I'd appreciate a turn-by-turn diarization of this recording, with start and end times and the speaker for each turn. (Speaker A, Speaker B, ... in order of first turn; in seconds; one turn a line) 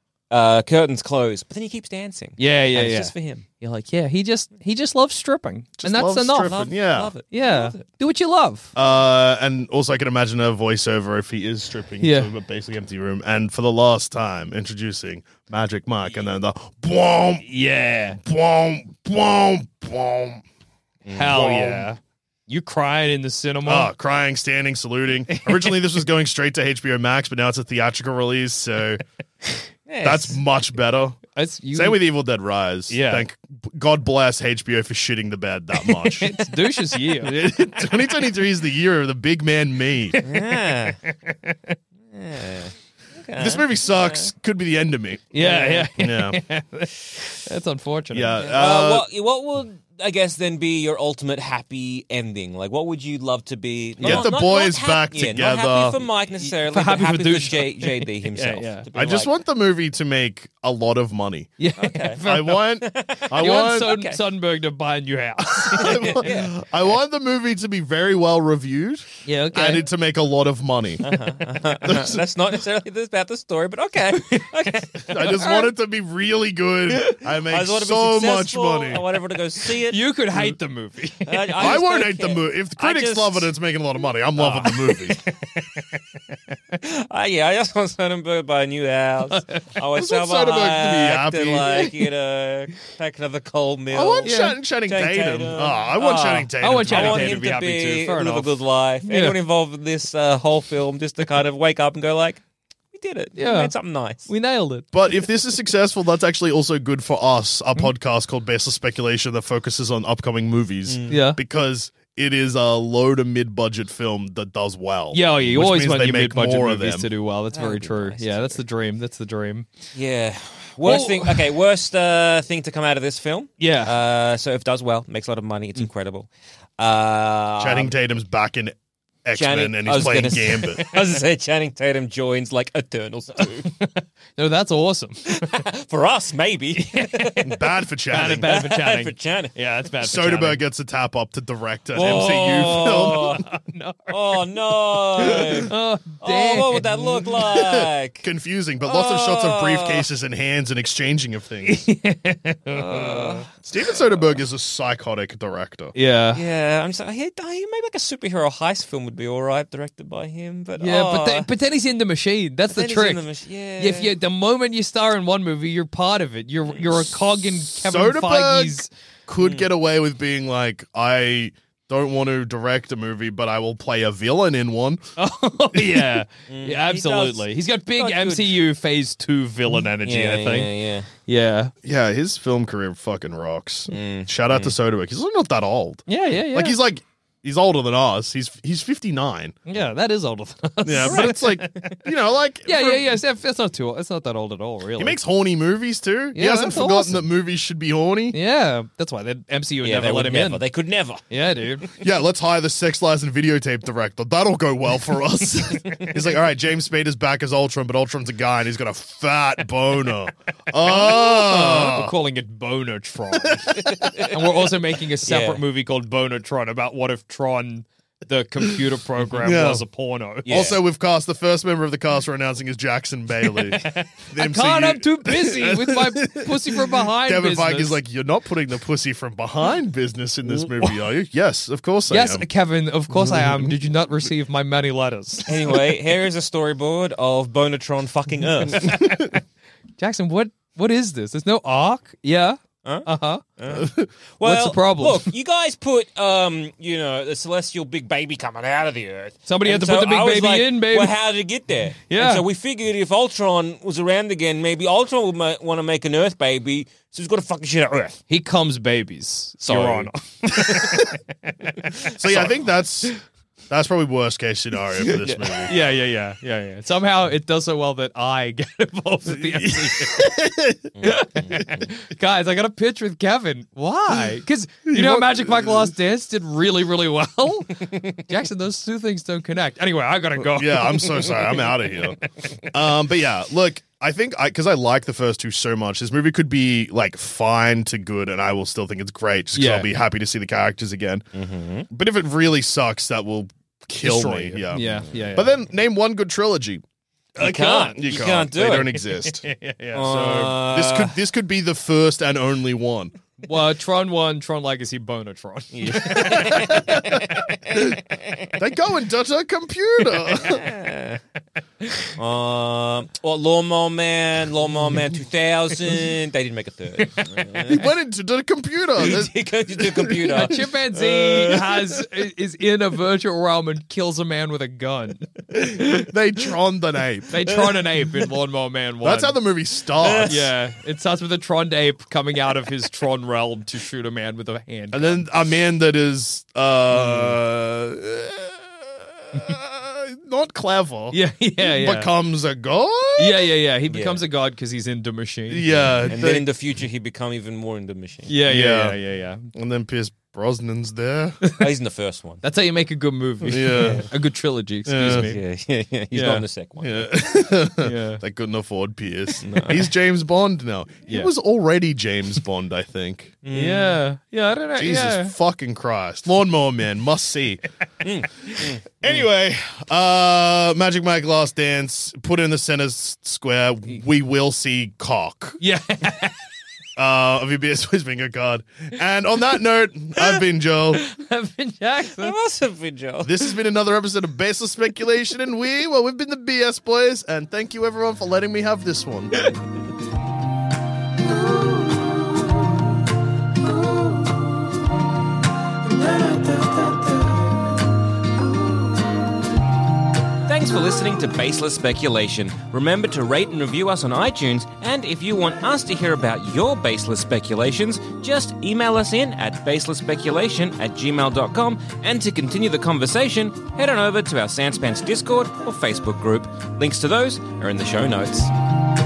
Speaker A: 0.3-3.4
Speaker B: 2.4-6.7
Speaker C: 5.8-7.1
Speaker A: 6.4-7.8
Speaker B: 7.3-8.7
Speaker C: 8.8-17.5
Speaker B: 12.0-12.3
Speaker B: 17.4-18.2
Speaker C: 18.2-20.4
Speaker A: 21.0-21.5
Speaker B: 21.1-23.9
Speaker C: 21.3-21.9
Speaker C: 23.6-29.0
Speaker B: 25.3-25.7
Speaker A: 29.9-30.4
Speaker C: 30.0-36.4
Speaker B: 31.3-32.0
Speaker B: 32.9-33.2
Speaker B: 36.0-37.8
Speaker C: 37.0-40.2
Speaker B: 40.1-41.7
Speaker A: 40.2-41.0
Speaker A: 42.1-44.3
Speaker C: 43.4-45.4
Speaker B: 45.3-48.4
Speaker A: 45.4-45.9
Speaker C: 45.9-46.4
Speaker C: 48.1-49.1
Speaker A: 48.4-59.3
Speaker B: 54.0-54.3
Speaker C: 54.0-56.0
Speaker B: 56.4-58.8
Speaker C: 58.9-61.6
Speaker B: 61.6-62.7
Speaker A: 61.8-64.2
Speaker C: 62.2-64.0
Speaker B: 63.3-66.2
Speaker A: 65.7-66.6
Speaker C: 65.7-71.0
Speaker B: 69.2-69.8
Speaker A: 71.0-75.5
Speaker C: 71.8-72.2
Speaker B: 74.1-75.7
Speaker C: 75.1-79.0
Speaker B: 76.9-77.2
Speaker A: 77.5-80.4
Speaker B: 79.7-81.5
Speaker A: 81.2-83.5
Speaker C: 81.6-85.2
Speaker B: 84.4-84.9
Speaker A: 85.2-86.0
Speaker A: 86.7-104.3
Speaker B: 89.3-89.6
Speaker C: 89.9-91.9
Speaker C: 93.9-97.4
Speaker B: 94.2-94.6
Speaker B: 96.6-99.4
Speaker B: 103.4-103.7
Speaker B: 104.3-105.1
Speaker C: 104.9-117.1
Speaker A: 110.9-111.2
Speaker B: 111.1-111.4
Speaker B: 115.1-119.7
Speaker A: 117.5-118.6
Speaker A: 119.9-127.9
Speaker B: 120.8-121.4
Speaker B: 123.6-123.9
Speaker C: 127.6-131.0
Speaker A: 129.3-133.7
Speaker B: 133.6-135.6
Speaker A: 135.2-137.5
Speaker B: 136.8-137.5
Speaker C: 137.4-138.5
Speaker B: 138.1-140.6
Speaker A: 138.1-139.5
Speaker C: 140.0-143.4
Speaker A: 141.9-143.4
Speaker B: 142.0-144.4
Speaker A: 144.1-148.2
Speaker B: 145.2-147.6
Speaker C: 148.2-151.8
Speaker A: 148.8-150.0
Speaker B: 151.6-153.4
Speaker A: 152.7-154.2
Speaker C: 153.7-155.9
Speaker B: 155.9-156.4
Speaker A: 156.3-161.5
Speaker B: 160.8-163.2
Speaker A: 162.7-164.1
Speaker B: 163.8-168.9
Speaker C: 167.8-175.0
Speaker A: 169.4-169.7
Speaker B: 175.2-181.7
Speaker C: 175.7-176.2
Speaker A: 176.5-178.6
Speaker A: 180.0-181.1
Speaker C: 181.8-189.6
Speaker A: 183.9-184.7
Speaker B: 186.1-186.8
Speaker B: 189.7-192.1
Speaker C: 190.8-193.2
Speaker A: 191.0-191.8
Speaker B: 192.7-195.2
Speaker C: 195.0-198.4
Speaker B: 196.3-197.2
Speaker B: 198.3-200.6
Speaker A: 199.8-201.9
Speaker B: 201.3-201.8
Speaker C: 202.0-212.1
Speaker B: 210.8-220.7
Speaker C: 213.5-214.1
Speaker A: 213.8-214.4
Speaker A: 215.2-215.6
Speaker C: 218.6-219.8
Speaker A: 220.4-220.8
Speaker C: 220.4-232.4
Speaker B: 223.7-228.0
Speaker B: 232.1-235.5
Speaker C: 233.2-233.7
Speaker A: 235.5-239.1
Speaker B: 238.8-239.3
Speaker B: 240.0-243.4
Speaker A: 242.8-258.2
Speaker C: 243.7-244.1
Speaker B: 244.4-245.3
Speaker B: 249.5-251.2
Speaker B: 252.1-252.4
Speaker B: 258.3-262.4
Speaker A: 259.6-261.0
Speaker C: 262.1-263.1
Speaker C: 263.7-265.7
Speaker B: 265.0-270.4
Speaker A: 265.2-265.7
Speaker C: 269.3-270.9
Speaker A: 271.0-271.9
Speaker B: 271.0-281.5
Speaker C: 274.9-275.9
Speaker C: 280.4-291.2
Speaker B: 289.5-289.9
Speaker A: 291.3-291.9
Speaker C: 291.9-296.8
Speaker B: 294.0-295.5
Speaker A: 297.4-298.9
Speaker B: 297.4-298.0
Speaker C: 297.8-303.1
Speaker B: 299.2-300.1
Speaker A: 299.9-301.1
Speaker B: 303.4-307.0
Speaker A: 305.7-308.5
Speaker C: 306.1-307.2
Speaker C: 307.7-308.0
Speaker C: 308.6-310.6
Speaker A: 310.4-311.2
Speaker A: 312.1-317.8
Speaker C: 317.6-320.5
Speaker A: 319.0-321.8
Speaker B: 320.4-326.1
Speaker C: 325.5-327.5
Speaker B: 327.3-329.4
Speaker C: 329.0-330.5
Speaker A: 330.0-330.4
Speaker B: 330.2-335.2
Speaker C: 334.9-343.4
Speaker B: 341.1-342.1
Speaker B: 343.2-346.1
Speaker A: 343.9-344.2
Speaker C: 345.5-346.5
Speaker A: 346.1-348.3
Speaker B: 348.3-349.4
Speaker C: 348.5-349.0
Speaker C: 349.5-351.4
Speaker A: 351.5-352.4
Speaker B: 352.4-355.4
Speaker C: 353.4-354.1
Speaker A: 353.8-354.1
Speaker C: 354.9-355.3
Speaker A: 355.0-357.1
Speaker B: 356.1-356.4
Speaker C: 356.8-363.4
Speaker B: 357.8-358.2
Speaker A: 359.4-359.9
Speaker A: 363.4-364.0
Speaker B: 363.5-365.3
Speaker C: 364.8-367.6
Speaker A: 368.0-368.8
Speaker B: 368.5-369.1
Speaker C: 369.0-375.6
Speaker B: 375.6-376.4
Speaker C: 376.9-381.0
Speaker B: 380.9-382.3
Speaker A: 382.1-383.3
Speaker C: 383.2-389.3
Speaker A: 400.4-418.5